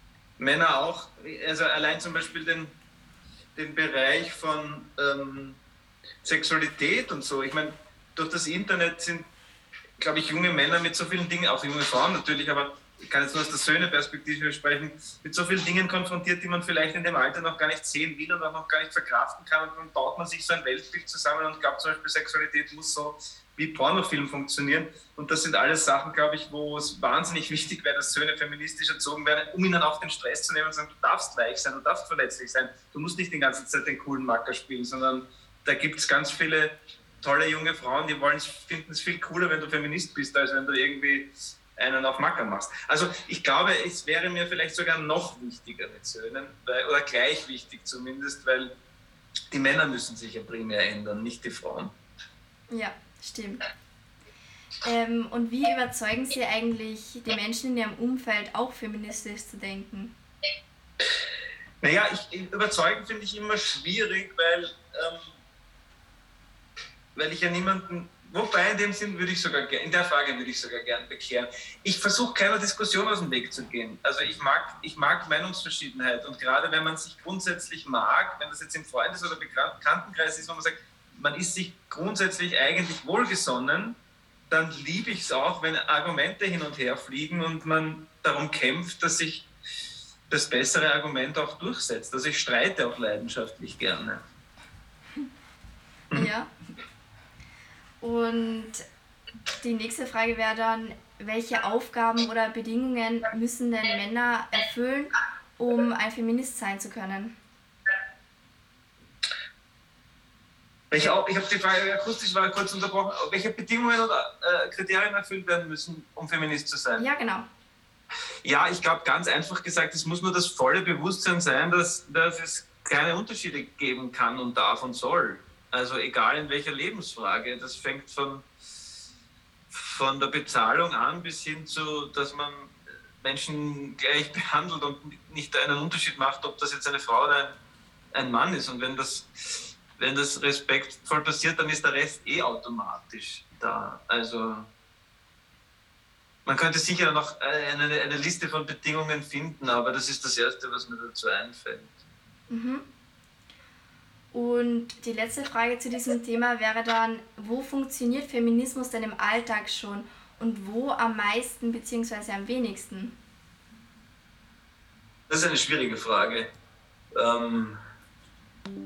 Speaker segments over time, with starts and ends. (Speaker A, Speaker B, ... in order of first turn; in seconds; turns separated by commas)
Speaker A: 0.4-2.8, Speaker A: 3.6-5.6, Speaker A: 6.2-9.3, Speaker A: 10.0-48.8, Speaker A: 49.5-52.0, Speaker B: 52.7-53.7, Speaker B: 54.8-60.1, Speaker A: 61.8-65.4, Speaker A: 67.2-84.0, Speaker A: 84.5-89.5, Speaker A: 90.3-94.2, Speaker B: 96.1-96.5, Speaker B: 98.0-98.8, Speaker B: 99.6-107.3, Speaker A: 110.9-117.1, Speaker B: 117.0-117.5, Speaker A: 118.4-128.5, Speaker A: 129.7-137.6, Speaker A: 138.1-144.7, Speaker A: 146.4-152.0, Speaker B: 152.5-152.8, Speaker B: 154.3-163.2, Speaker A: 165.3-166.5, Speaker A: 167.1-167.8